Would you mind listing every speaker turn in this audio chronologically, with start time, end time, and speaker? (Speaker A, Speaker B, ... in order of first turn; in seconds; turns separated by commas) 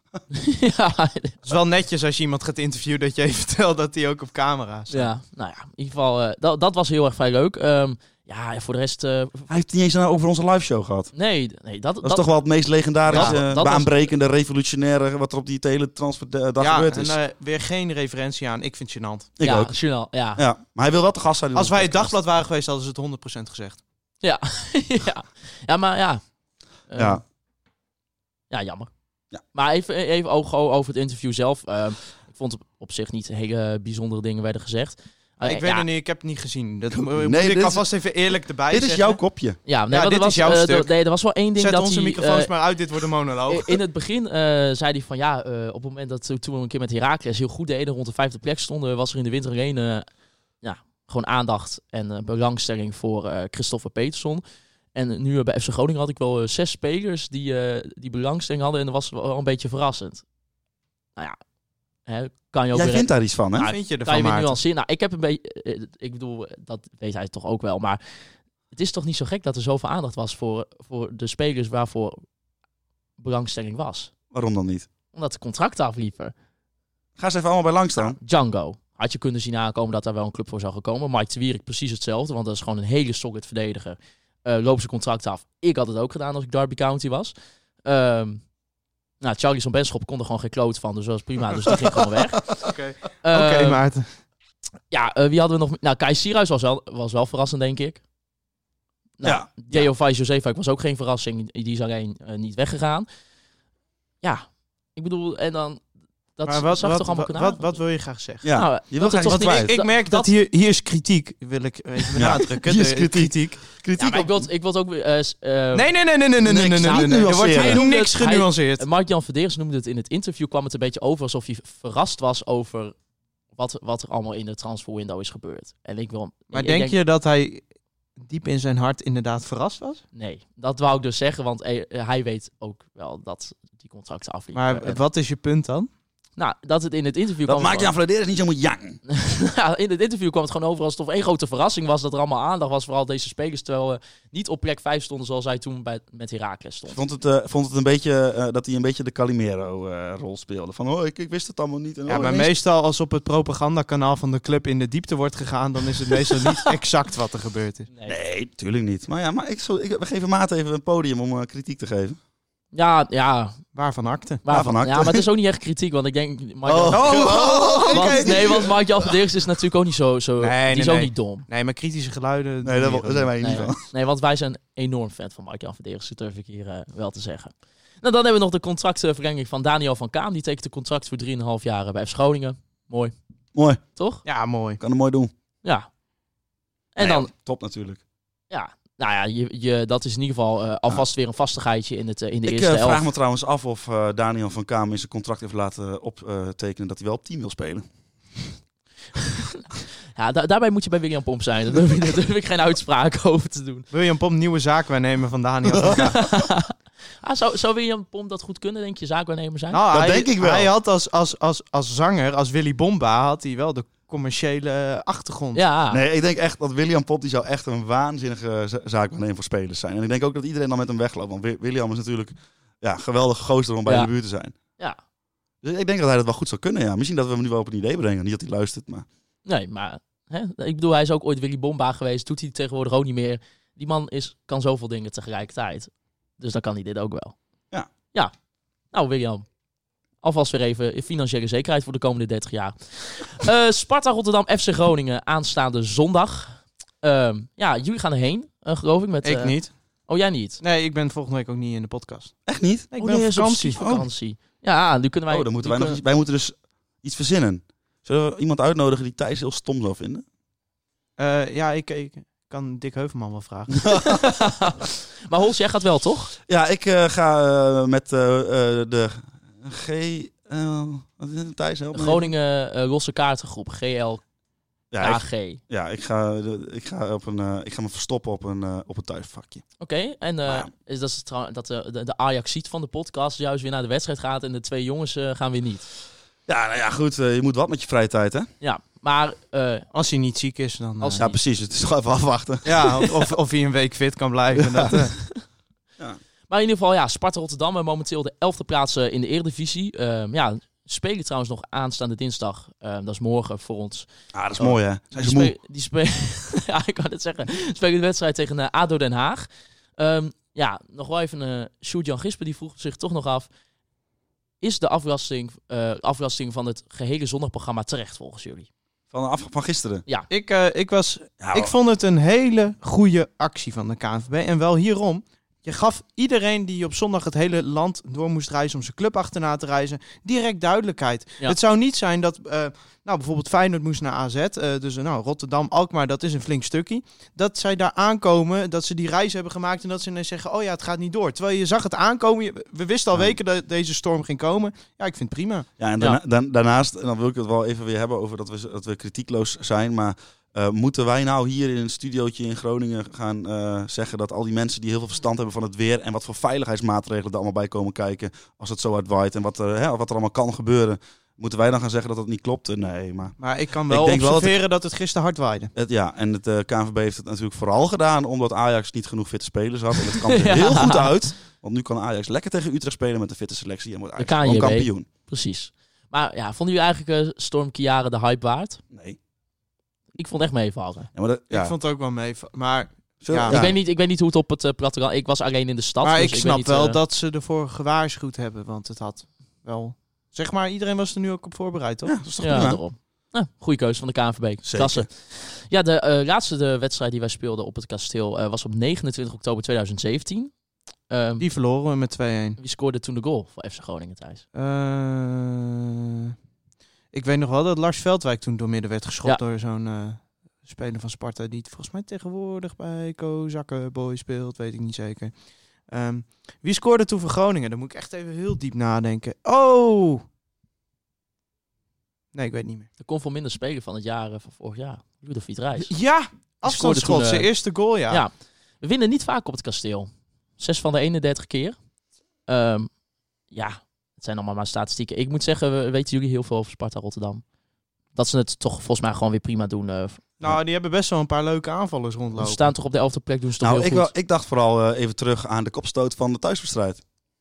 Speaker A: 0.3-1.4, Speaker B: 1.4-5.1, Speaker A: 4.9-9.5, Speaker C: 9.5-11.1, Speaker A: 11.1-12.3, Speaker C: 12.0-17.2, Speaker A: 13.1-14.1, Speaker B: 13.1-13.4, Speaker B: 16.6-19.3, Speaker C: 19.4-19.8, Speaker A: 19.4-20.4, Speaker C: 20.4-22.1, Speaker B: 21.6-23.8, Speaker A: 24.2-26.2, Speaker A: 26.9-27.2, Speaker C: 26.9-27.2, Speaker A: 28.5-28.9, Speaker A: 29.5-35.9, Speaker B: 35.4-39.2, Speaker C: 36.9-37.9, Speaker C: 38.7-39.6, Speaker A: 39.7-42.5, Speaker B: 39.9-40.9, Speaker B: 41.6-43.8, Speaker A: 43.5-50.1, Speaker A: 50.6-54.4, Speaker A: 54.9-60.2, Speaker A: 62.1-63.1, Speaker C: 62.7-63.7, Speaker B: 63.6-64.6, Speaker A: 64.0-68.0, Speaker A: 68.7-72.2, Speaker A: 73.2-74.1, Speaker C: 74.3-74.9, Speaker A: 75.1-76.3, Speaker C: 77.2-78.2, Speaker A: 78.0-87.3, Speaker A: 87.8-88.4, Speaker A: 89.2-92.5, Speaker B: 92.6-94.0, Speaker A: 93.2-93.8, Speaker A: 94.9-98.0, Speaker A: 99.2-103.1, Speaker C: 99.2-99.7, Speaker A: 104.2-105.8, Speaker A: 106.4-107.8, Speaker B: 106.5-108.5, Speaker C: 108.4-109.7, Speaker A: 108.5-110.3, Speaker B: 109.2-113.6, Speaker C: 112.2-114.5, Speaker A: 114.0-115.9, Speaker B: 115.7-118.8, Speaker C: 116.4-117.8, Speaker A: 116.8-123.0, Speaker A: 123.5-127.0, Speaker B: 126.5-127.6, Speaker B: 128.2-130.0, Speaker A: 130.2-135.0, Speaker B: 134.5-135.9, Speaker A: 136.4-137.9, Speaker C: 137.4-139.0, Speaker A: 139.1-147.0, Speaker C: 146.9-152.5, Speaker B: 152.1-157.9, Speaker C: 158.1-162.2, Speaker A: 162.7-163.6, Speaker B: 163.7-164.4, Speaker A: 164.4-171.5, Speaker C: 164.5-165.3, Speaker C: 166.7-168.7, Speaker B: 166.9-168.7, Speaker B: 170.4-173.6, Speaker C: 172.6-173.8, Speaker A: 173.4-183.1, Speaker C: 183.6-183.8, Speaker A: 184.0-184.2, Speaker B: 184.2-184.8, Speaker C: 184.8-185.3, Speaker A: 186.9-187.3, Speaker C: 187.0-188.0, Speaker A: 188.5-193.1, Speaker C: 192.5-197.8, Speaker A: 200.2-203.9, Speaker B: 203.9-206.2, Speaker C: 205.8-206.3, Speaker A: 205.9-209.8, Speaker B: 209.7-215.6, Speaker C: 209.9-210.7, Speaker A: 215.5-216.0, Speaker C: 215.9-224.6, Speaker A: 223.9-224.1, Speaker C: 225.6-229.1, Speaker A: 229.5-237.4, Speaker A: 238.9-239.5, Speaker A: 240.2-250.6, Speaker B: 249.2-249.7, Speaker B: 250.6-252.4, Speaker C: 252.5-252.9, Speaker B: 252.9-253.8, Speaker A: 253.0-256.0, Speaker C: 253.8-254.1, Speaker C: 255.3-260.2, Speaker B: 261.2-263.9, Speaker C: 263.9-264.2, Speaker A: 264.0-266.3, Speaker C: 266.5-272.3, Speaker A: 271.9-274.2, Speaker C: 274.9-279.6, Speaker A: 275.0-275.6, Speaker A: 279.8-285.9, Speaker C: 286.5-288.5, Speaker A: 288.6-289.9, Speaker B: 289.9-291.2, Speaker A: 291.0-291.4, Speaker C: 291.2-293.1, Speaker B: 292.6-295.2, Speaker C: 294.6-294.9, Speaker A: 296.5-313.5, Speaker C: 304.3-305.6, Speaker A: 314.6-318.7, Speaker C: 319.1-320.0, Speaker B: 320.3-345.7, Speaker C: 321.4-321.7, Speaker C: 345.8-364.6, Speaker B: 363.4-365.7, Speaker C: 365.8-375.1, Speaker A: 370.2-371.1, Speaker A: 374.2-378.8, Speaker C: 378.9-379.2, Speaker A: 380.1-381.1, Speaker C: 381.1-381.7, Speaker B: 381.5-383.7, Speaker C: 383.2-383.8, Speaker A: 383.5-387.0, Speaker B: 386.0-392.1, Speaker C: 392.1-392.8, Speaker A: 392.4-400.5, Speaker C: 394.6-395.1, Speaker A: 401.1-401.4, Speaker B: 401.4-402.6, Speaker A: 402.6-404.4, Speaker B: 404.6-406.3, Speaker B: 407.1-415.3, Speaker B: 415.9-420.2, Speaker B: 422.3-422.9, Speaker A: 423.0-425.9, Speaker B: 425.8-428.2, Speaker A: 426.6-427.5, Speaker A: 428.1-431.8, Speaker A: 432.5-432.9, Speaker A: 433.5-437.4, Speaker A: 438.1-440.3, Speaker B: 440.4-442.7, Speaker A: 442.4-444.1, Speaker C: 443.6-447.0